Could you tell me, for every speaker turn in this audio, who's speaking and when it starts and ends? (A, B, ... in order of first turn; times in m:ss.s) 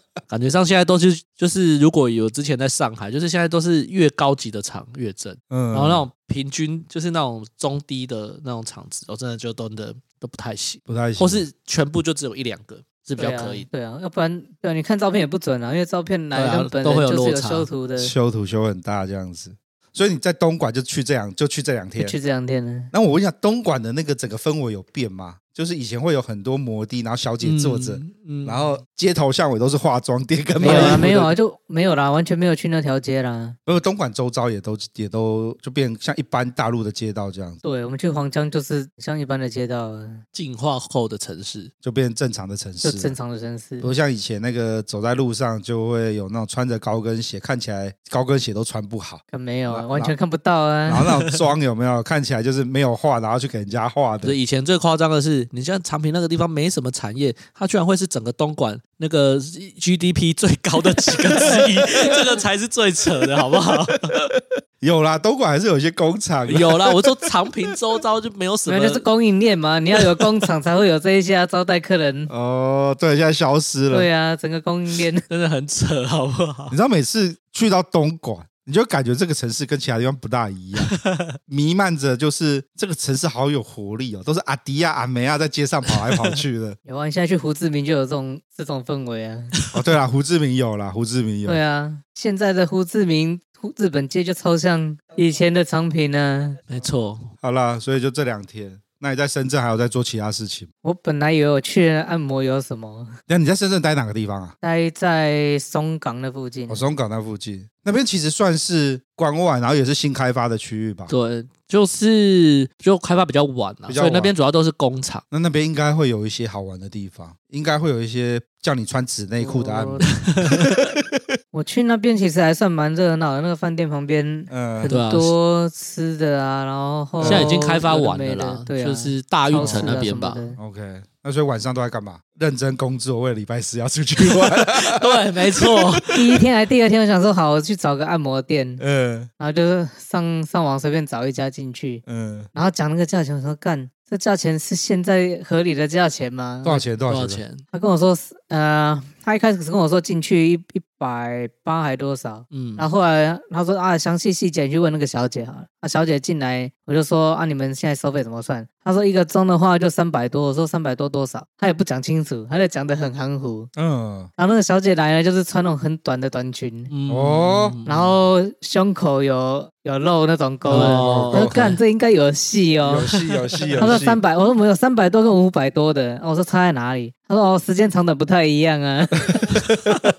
0:00.3-0:13.7 A
0:05.5-0:06.0 B
0:10.9-0:11.4 B
0:13.2-0:18.1 C
0:16.4-0:17.7 A
0:18.0-0:22.1 B
0:22.0-0:22.9 C
0:22.9-0:31.3 B
0:27.4-0:28.7 A
0:30.6-0:31.1 A
0:30.6-0:33.6 C
0:33.7-0:37.6 B
0:37.6-0:40.2 C
0:40.3-0:41.7 A
0:41.8-0:43.2 B
0:42.8-0:43.9 C
0:43.8-0:50.1 B
0:49.3-0:51.1 C
0:50.9-0:54.4 B
0:54.2-1:04.3 A
1:04.8-1:07.0 B
1:06.5-1:09.0 A
1:08.7-1:12.3 C
1:12.3-1:14.1 B
1:13.9-1:15.2 C
1:15.3-1:16.7 A
1:16.7-1:21.0 B
1:20.8-1:21.3 A
1:21.5-1:26.8 B
1:26.1-1:26.3 A
1:26.9-1:29.5 C
1:29.7-1:31.6 B
1:31.4-1:36.6 C
1:36.7-1:37.3 A
1:37.4-1:40.7 B
1:40.8-1:43.1 C
1:43.3-1:44.5 B
1:44.6-1:46.9 C
1:46.7-1:51.1 B
1:51.1-1:55.2 A
1:53.9-1:54.3 B
1:55.3-2:01.0 B
1:59.4-2:00.1 C
2:00.1-2:00.8 A
2:01.5-2:10.6 C
2:04.5-2:04.9 B
2:04.9-2:05.3 A
2:07.2-2:07.6 B
2:07.2-2:10.4 A
2:09.6-2:10.0 B
2:10.6-2:16.0 B
2:14.3-2:16.2 A
2:16.1-2:18.8 C
2:18.8-2:19.3 B
2:19.4-2:22.0 C
2:22.0-2:22.5 B
2:22.5-2:26.9 C
2:26.6-2:27.4 B
2:27.1-2:27.6 A
2:27.7-2:43.7 C
2:32.5-2:32.8 A
2:43.8-2:44.3 B
2:44.4-2:46.9 C
2:46.9-2:48.1 A
2:47.1-2:47.7 B
2:47.9-2:53.1 C
2:50.7-2:51.7 A
2:50.7-2:51.7 B
2:52.8-2:54.2 B
2:53.3-2:54.0 A
2:53.8-2:59.6 C
2:59.4-3:00.0 B